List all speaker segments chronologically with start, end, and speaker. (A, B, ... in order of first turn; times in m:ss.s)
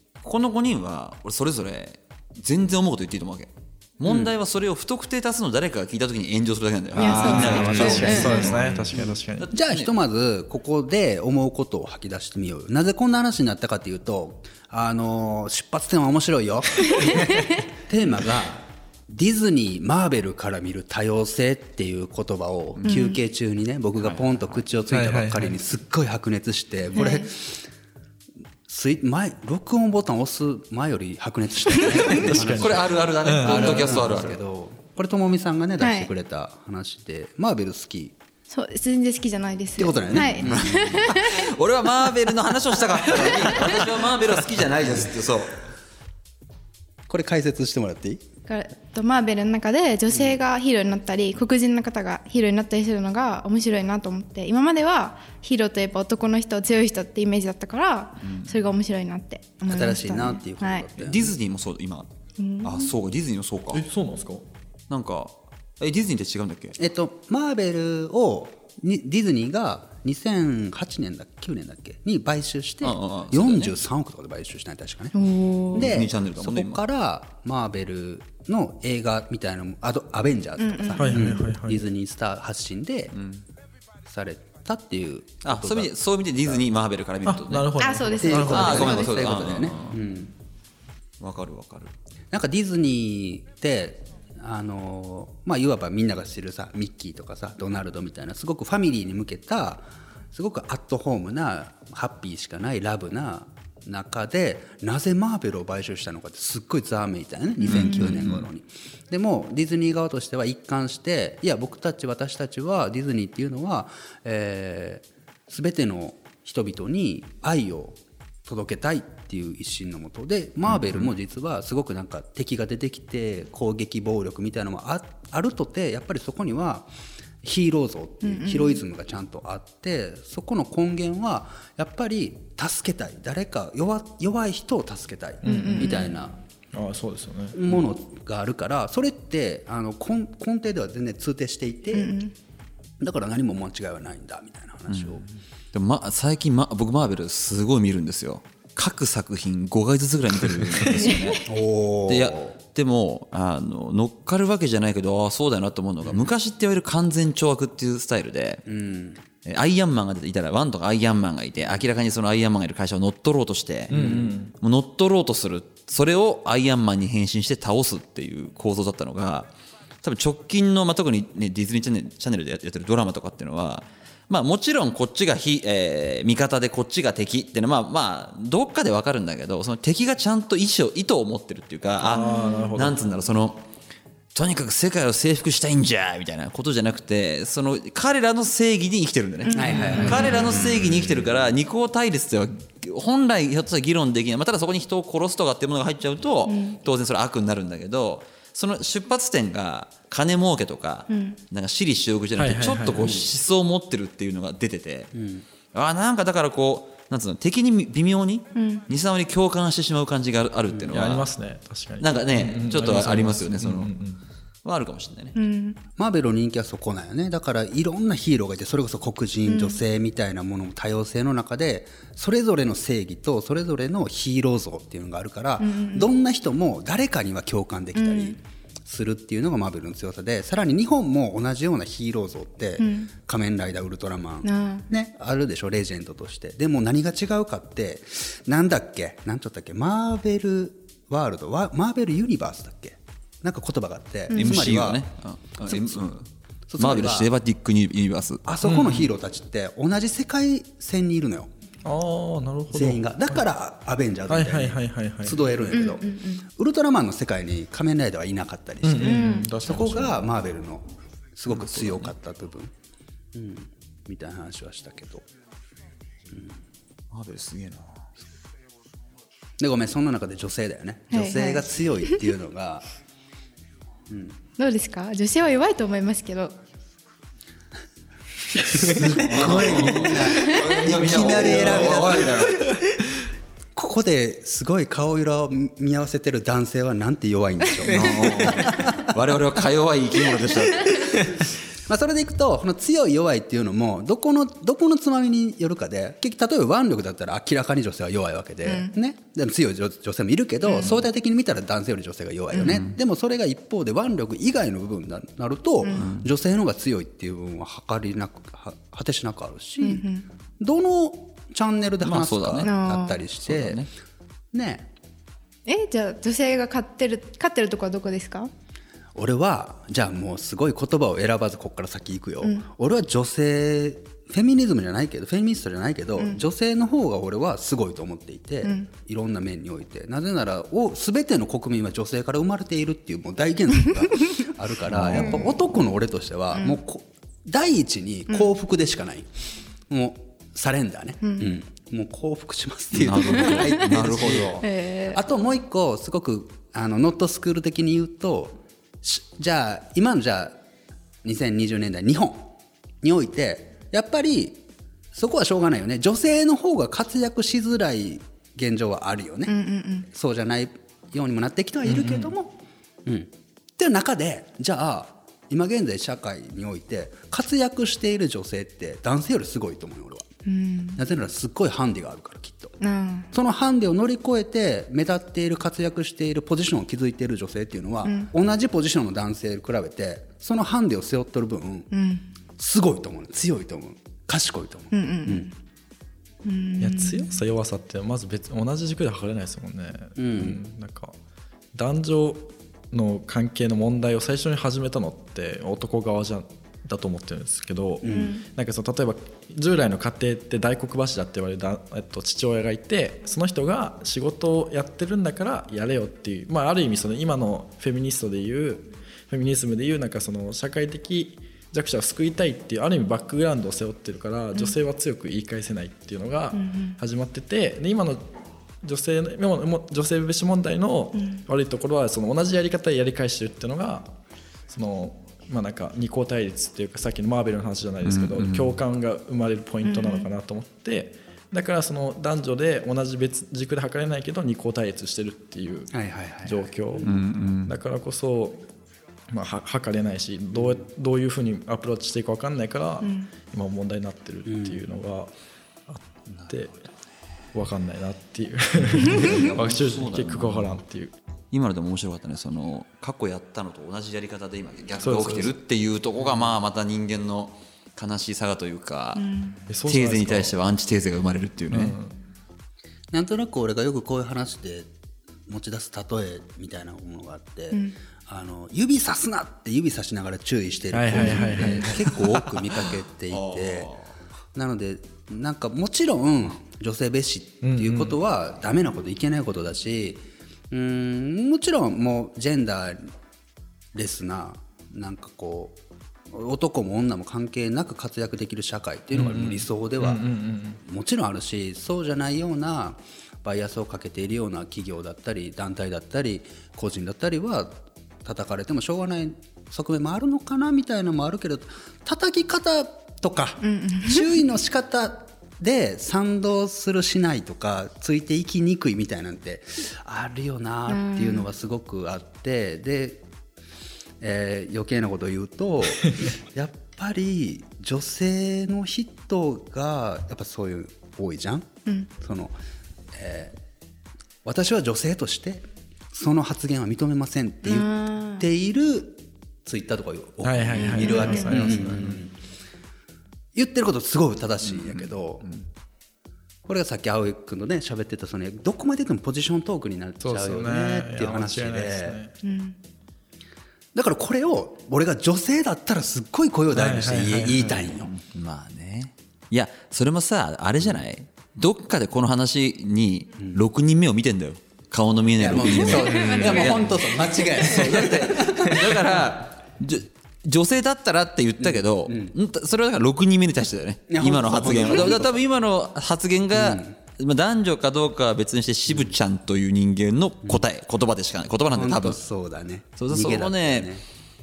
0:00.2-0:09.9 A
0:04.0-0:04.3 B
0:07.0-0:08.6 C
0:07.0-0:09.5 D
0:07.0-0:27.6 B
0:17.0-0:17.4 C
0:22.8-0:23.2 C
0:24.0-0:24.6 A
0:24.9-0:25.5 D
0:26.9-0:27.3 C
0:28.7-0:38.1 B
0:32.0-0:34.0 D
0:32.1-0:34.4 A
0:35.8-0:36.1 C
0:38.5-0:41.5 C
0:39.8-0:41.0 B
0:40.2-0:45.6 A
0:43.0-0:43.8 C
0:47.1-0:48.2 B
0:48.5-1:00.8 C
0:50.1-0:50.4 B
0:58.2-0:58.6 A
0:59.6-1:01.3 B
1:01.0-1:02.1 A
1:02.4-1:02.9 C
1:02.6-1:03.8 A
1:03.7-1:04.4 D
1:04.9-1:06.8 A
1:06.8-1:15.2 B
1:12.8-1:13.8 A
1:15.1-1:15.9 C
1:15.7-1:23.2 B
1:15.7-1:16.8 A
1:20.6-1:21.2 C
1:21.0-1:21.8 D
1:23.1-1:23.4 A
1:24.0-1:26.6 B
1:25.4-1:27.8 A
1:27.2-1:28.9 D
1:27.8-1:29.2 C
1:28.2-1:30.3 B
1:28.4-1:30.0 A
1:31.2-1:31.9 A
1:32.3-2:06.9 B
1:47.6-1:48.2 C
1:47.6-1:48.4 A
2:00.7-2:01.1 A
2:07.4-2:16.4 B
2:08.2-2:08.8 C
2:15.4-2:16.1 D
2:15.5-2:16.1 C
2:16.7-2:17.6 D
2:17.5-2:22.2 B
2:21.9-2:22.3 C
2:23.0-2:25.2 B
2:24.9-2:31.5 A
2:30.4-2:31.1 D
2:31.1-2:31.4 C
2:31.4-2:32.5 B
2:32.1-2:38.6 A
2:38.6-2:39.2 B
2:39.4-2:49.5 A
2:43.9-2:44.5 D
2:43.9-2:44.3 B
2:50.0-3:03.6 A
3:02.0-3:03.0 D
3:02.1-3:02.7 C
3:04.3-3:25.1 A
3:09.4-3:10.5 C
3:09.5-3:11.1 B
3:09.9-3:10.3 D
3:16.4-3:16.8 C
3:21.1-3:21.4 C
3:22.4-3:23.2 D
3:23.0-3:23.2 B
3:25.1-3:25.4 B
3:25.7-3:31.3 A
3:28.5-3:28.8 C
3:30.9-3:34.2 D
3:32.0-3:33.9 A
3:34.6-3:35.4 A
3:35.3-3:35.8 C
3:36.0-4:05.0 B
3:39.4-3:39.8 C
3:45.6-3:46.1 C
3:48.0-3:48.4 C
3:52.8-3:53.1 C
3:54.4-3:54.8 C
4:04.3-4:04.7 C
4:04.3-4:06.3 A
4:05.7-4:06.0 B
4:06.7-4:07.3 B
4:06.8-4:08.4 A
4:08.4-4:11.5 B
4:08.6-4:09.1 D
4:11.8-4:13.4 D
4:12.7-4:20.8 B
4:14.3-4:15.4 D
4:15.7-4:16.4 C
4:18.8-4:20.2 D
4:19.0-4:19.5 C
4:21.3-4:22.7 B
4:21.5-4:22.1 A
4:23.3-4:25.3 B
4:26.3-4:26.6 B
4:27.1-4:28.1 A
4:29.6-4:32.8 B
4:31.1-4:32.2 C
4:34.1-4:34.4 B
4:34.6-4:36.6 C
4:38.6-4:42.8 B
4:38.8-4:42.8 A
4:39.8-4:40.7 C
4:43.7-4:49.1 B
4:47.8-4:48.7 C
4:47.9-4:51.5 A
4:50.5-5:10.0 B
4:58.6-4:58.9 C
5:00.6-5:01.0 C
5:02.5-5:02.8 C
5:02.6-5:02.9 A
5:05.8-5:06.1 C
5:05.9-5:06.2 A
5:09.8-5:10.2 C
5:10.6-5:13.8 B
5:12.0-5:12.8 A
5:12.6-5:13.2 C
5:13.4-5:13.9 A
5:14.5-5:14.9 B
5:15.6-5:18.5 C
5:19.1-5:39.3 B
5:28.6-5:28.9 C
5:34.9-5:35.4 A
5:35.1-5:35.5 C
5:36.5-5:36.8 C
5:39.9-5:50.6 B
5:41.2-5:41.5 C
5:42.9-5:44.6 A
5:43.4-5:45.2 C
5:51.2-5:54.6 B
5:55.1-5:59.5 B
5:59.5-6:00.1 C
6:00.0-6:02.5 B
6:01.8-6:02.3 D
6:03.0-6:10.3 B
6:10.4-6:11.0 C
6:11.0-6:12.8 B
6:12.8-6:13.3 C
6:13.3-6:21.9 B
6:21.9-6:22.2 C
6:22.6-6:25.5 B
6:24.9-6:25.5 C
6:26.4-6:27.4 C
6:26.8-6:31.1 D
6:30.2-6:30.6 B
6:31.7-6:58.3 D
6:38.0-6:38.4 B
6:38.1-6:38.4 C
6:56.5-6:57.0 C
6:58.8-7:04.2 D
7:04.7-7:15.9 D
7:08.0-7:08.7 A
7:09.8-7:10.3 C
7:15.9-7:17.1 B
7:16.4-7:18.7 D
7:17.0-7:17.7 A
7:19.3-7:25.3 D
7:20.5-7:20.8 B
7:23.0-7:23.3 C
7:24.4-7:24.8 B
7:25.9-7:26.7 D
7:26.3-7:26.6 A
7:27.5-7:31.1 D
7:28.9-7:30.8 A
7:31.5-7:39.2 A
7:35.0-7:35.6 D
7:39.2-7:39.6 C
7:39.7-7:40.6 D
7:39.8-7:42.0 A
7:41.7-7:42.1 D
7:43.1-7:44.9 B
7:45.5-7:53.9 B
7:47.7-7:48.0 C
7:50.9-7:52.1 D
7:51.2-7:51.9 C
7:52.5-7:54.1 A
7:54.5-8:03.1 B
7:57.6-7:58.2 D
8:03.9-8:05.8 B
8:06.3-8:10.3 B
8:09.1-8:10.8 D
8:10.8-8:33.2 B
8:23.6-8:24.3 C
8:30.9-8:31.5 C
8:34.2-8:42.6 B
8:43.1-8:43.6 B
8:44.4-8:52.3 B
8:47.6-8:48.5 C
8:50.4-8:52.2 D
8:50.8-8:51.6 C
8:51.8-8:52.1 A
8:53.5-8:55.5 B
8:54.7-8:55.7 A
8:56.6-9:02.2 B
9:00.2-9:02.3 D
9:02.4-9:02.8 C
9:03.9-9:08.1 B
9:06.7-9:07.8 D
9:08.0-9:32.2 A
9:13.4-9:13.6 B
9:15.4-9:19.2 B
9:15.9-9:16.8 C
9:21.6-9:22.3 B
9:24.1-9:25.4 B
9:26.5-9:27.0 B
9:31.7-9:34.0 B
9:33.0-9:33.9 A